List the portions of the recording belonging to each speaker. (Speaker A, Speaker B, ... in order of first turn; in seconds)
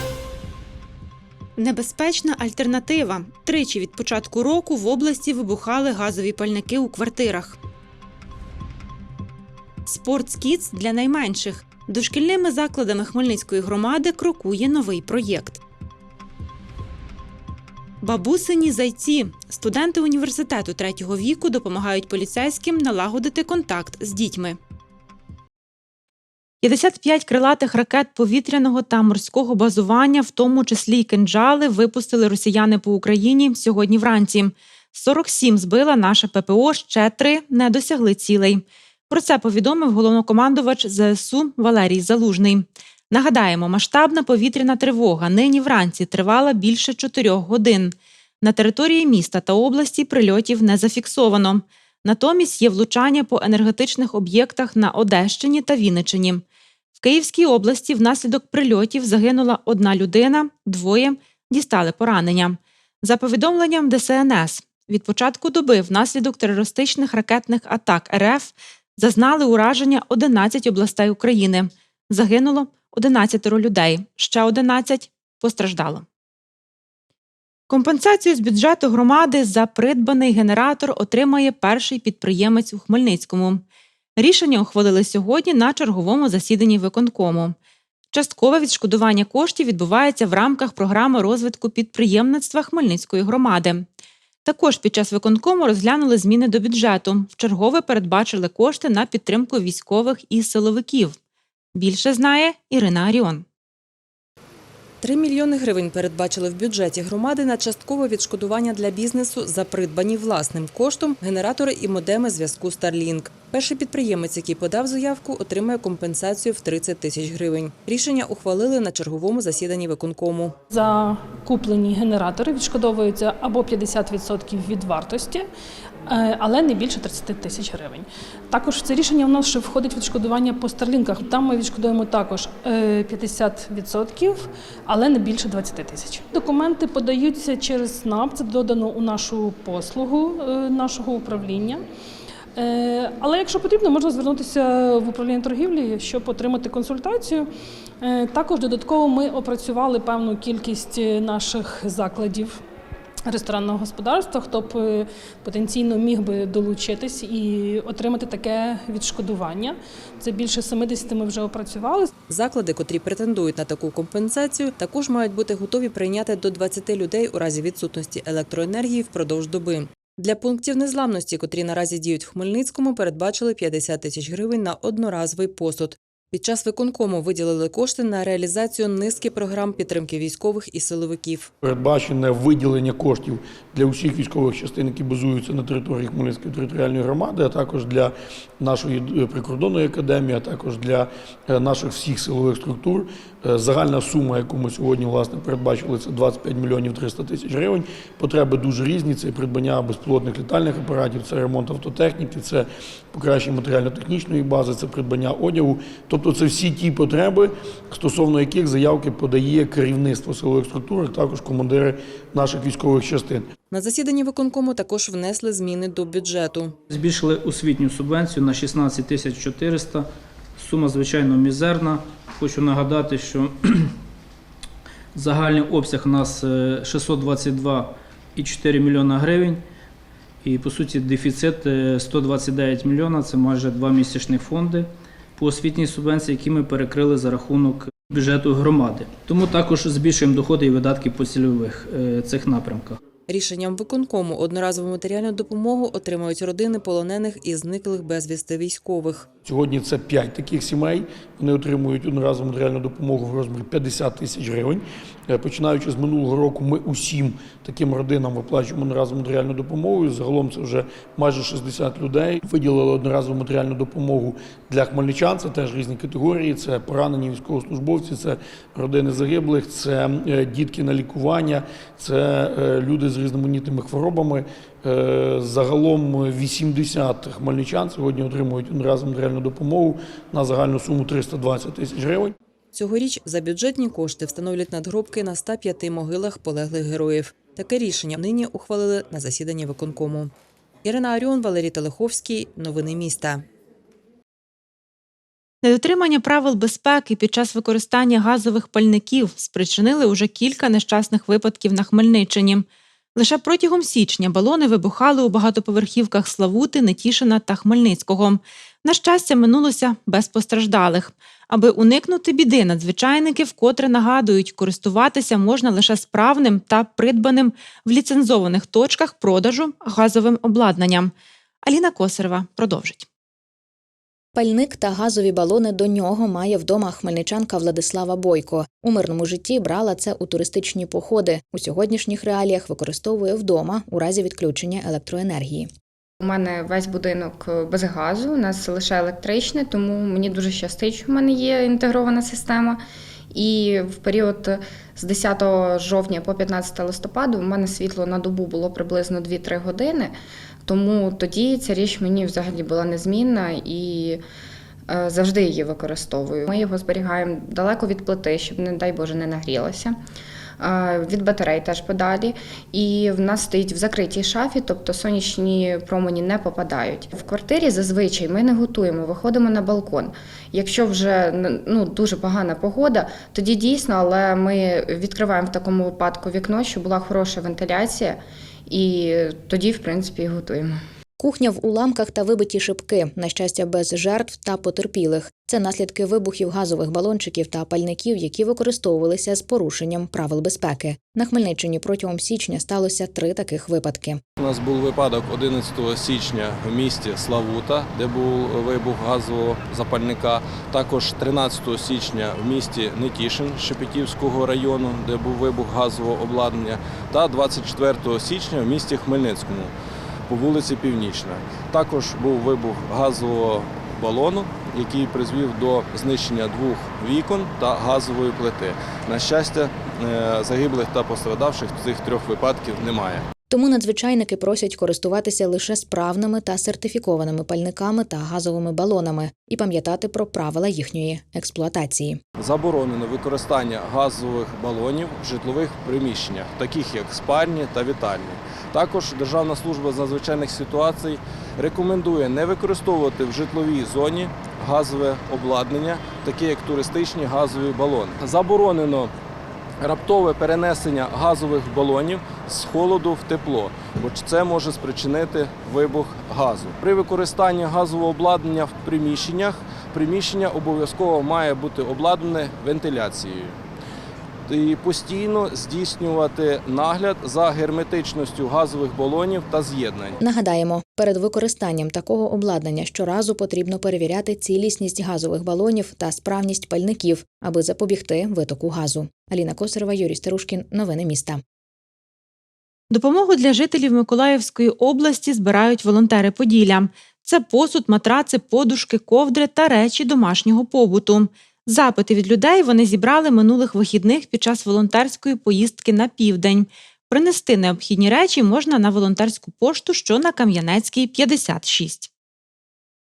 Speaker A: 1.6-7.6, 9.9-15.6, 18.0-24.6, 26.6-56.4, 57.0-76.0, 77.7-83.6, 84.2-87.5, 88.1-93.9, 94.5-101.2, 101.8-103.5, 295.6-321.1, 321.6-323.1, 482.9-502.1
Speaker B: 105.0-120.5, 162.3-181.5, 213.7-216.7, 243.3-249.3, 282.7-290.3, 290.8-293.4
Speaker C: 120.7-125.5, 126.1-141.8, 142.6-147.5, 148.0-152.6, 153.3-162.1
Speaker D: 181.6-213.4, 249.4-282.3
Speaker E: 216.9-223.8, 225.2-229.6, 230.4-243.0
Speaker F: 324.4-335.7, 381.2-394.2, 423.5-432.2, 470.2-481.4
Speaker G: 336.2-350.1, 350.6-354.2, 354.9-360.0, 360.6-380.8
Speaker H: 394.4-409.7, 410.3-423.2, 432.4-449.1, 449.8-463.6, 464.5-470.2